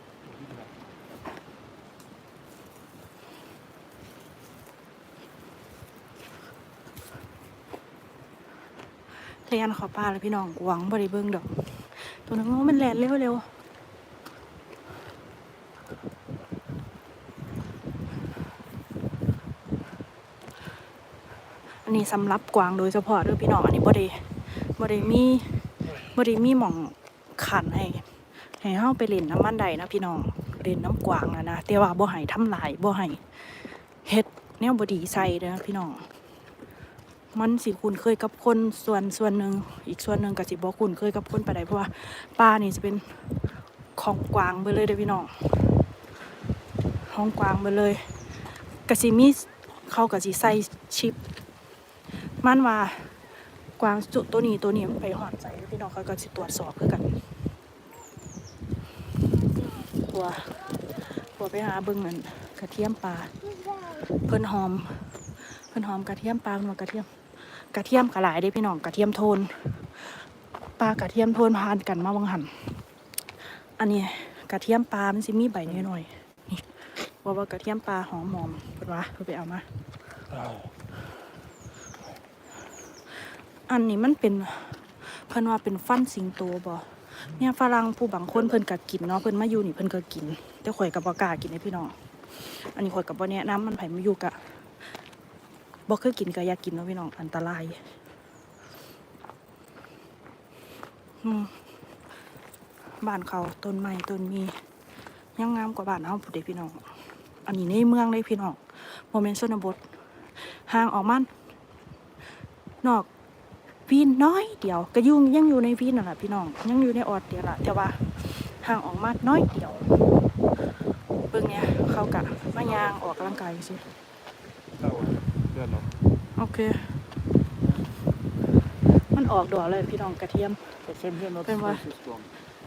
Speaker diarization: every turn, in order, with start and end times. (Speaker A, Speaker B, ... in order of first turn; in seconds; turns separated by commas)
Speaker A: 0.2-0.7, Speaker B: 9.3-13.5, Speaker B: 21.8-36.1, Speaker B: 37.3-43.4, Speaker B: 44.0-45.7, Speaker B: 47.0-48.2, Speaker B: 48.8-51.2, Speaker B: 52.2-57.3, Speaker B: 59.6-70.3, Speaker B: 70.8-72.8, Speaker B: 73.4-79.7, Speaker A: 80.3-80.7, Speaker B: 83.7-94.7, Speaker B: 95.9-97.9, Speaker B: 101.2-101.7, Speaker B: 103.0-104.6, Speaker B: 105.3-111.3, Speaker B: 112.8-113.1, Speaker B: 113.9-120.1, Speaker B: 121.3-123.8, Speaker A: 122.2-123.2, Speaker A: 124.8-126.0, Speaker B: 126.3-127.0, Speaker B: 129.0-130.8, Speaker A: 130.8-132.3, Speaker B: 131.4-131.8